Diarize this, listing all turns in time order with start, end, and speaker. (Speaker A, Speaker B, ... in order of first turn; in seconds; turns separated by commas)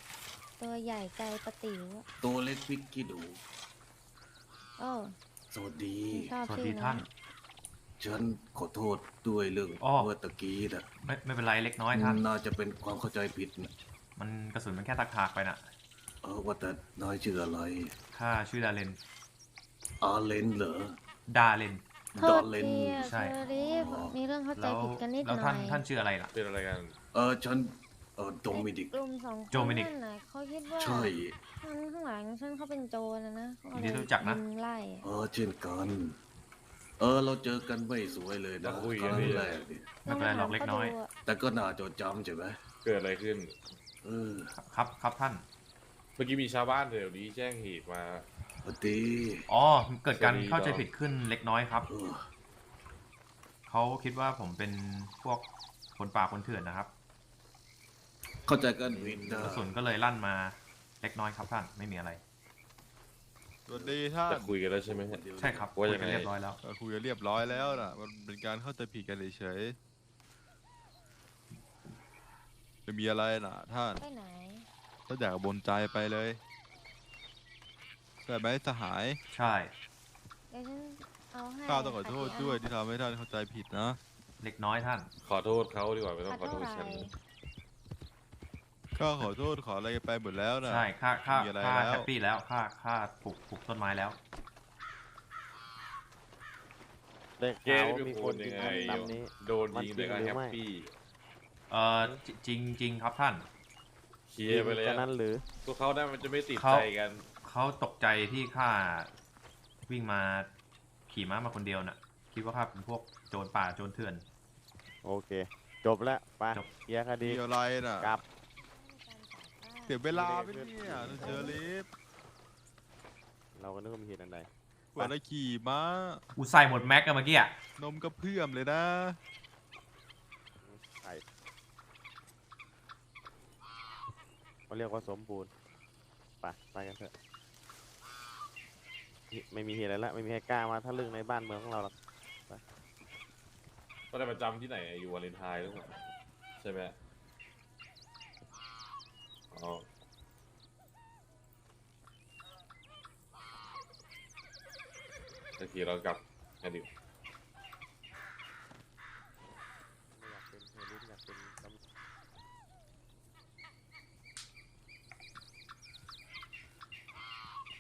Speaker A: 0.6-2.1, Speaker B: 2.2-3.4, Speaker A: 4.8-5.2, Speaker B: 5.5-6.3, Speaker A: 6.1-7.1, Speaker C: 6.5-7.1, Speaker B: 8.0-10.9, Speaker C: 9.8-10.1, Speaker C: 11.0-12.2, Speaker B: 11.9-13.7, Speaker C: 14.2-15.7, Speaker B: 16.2-17.9, Speaker C: 18.1-19.0, Speaker B: 20.0-21.0, Speaker C: 21.3-21.8, Speaker B: 22.1-24.1, Speaker A: 22.2-25.8, Speaker C: 23.0-23.4, Speaker C: 24.6-26.3, Speaker D: 26.3-26.9, Speaker B: 27.1-28.9, Speaker A: 28.5-35.1, Speaker C: 29.5-29.9, Speaker B: 30.8-31.4, Speaker C: 33.7-34.4, Speaker B: 35.0-36.1, Speaker B: 37.0-39.9, Speaker D: 38.6-39.5, Speaker C: 39.1-39.4, Speaker C: 40.0-41.0, Speaker A: 40.1-41.1, Speaker B: 41.3-42.6, Speaker D: 42.8-43.6, Speaker B: 44.0-44.5, Speaker C: 44.6-45.4, Speaker D: 46.2-48.3, Speaker B: 48.6-49.5, Speaker C: 49.5-51.9, Speaker D: 50.2-50.9, Speaker B: 51.9-52.3, Speaker C: 53.7-56.9, Speaker B: 58.5-59.7, Speaker E: 59.0-59.2, Speaker C: 59.4-62.2, Speaker F: 63.7-64.5, Speaker B: 63.7-64.0, Speaker D: 64.3-66.3, Speaker B: 65.1-65.7, Speaker C: 65.4-66.6, Speaker F: 66.6-69.8, Speaker A: 67.4-67.9, Speaker F: 72.9-74.0, Speaker A: 74.0-74.7, Speaker F: 75.1-76.4, Speaker F: 78.2-79.2, Speaker C: 79.3-79.7, Speaker A: 80.5-82.6, Speaker F: 81.7-84.0, Speaker C: 84.4-85.1, Speaker D: 85.2-87.1, Speaker A: 86.3-87.1, Speaker F: 89.0-92.1, Speaker C: 90.7-94.2, Speaker E: 97.4-100.6, Speaker D: 97.6-100.9, Speaker C: 101.7-103.5, Speaker D: 104.3-105.1, Speaker E: 104.5-105.5, Speaker D: 105.6-107.3, Speaker C: 106.6-106.9, Speaker C: 107.4-109.1, Speaker C: 109.9-110.5, Speaker C: 111.1-114.2, Speaker E: 115.0-117.4, Speaker F: 117.2-118.2, Speaker A: 118.6-120.0, Speaker F: 119.9-121.9, Speaker E: 120.1-121.6, Speaker A: 121.2-121.6, Speaker E: 123.5-125.2, Speaker F: 125.0-126.2, Speaker C: 126.4-127.5, Speaker F: 127.8-129.2, Speaker E: 130.6-131.2, Speaker E: 134.7-135.5, Speaker E: 136.4-137.1, Speaker E: 139.3-141.9, Speaker D: 144.1-146.0, Speaker D: 146.6-146.9, Speaker D: 149.5-149.8, Speaker D: 155.6-156.9, Speaker E: 160.1-161.8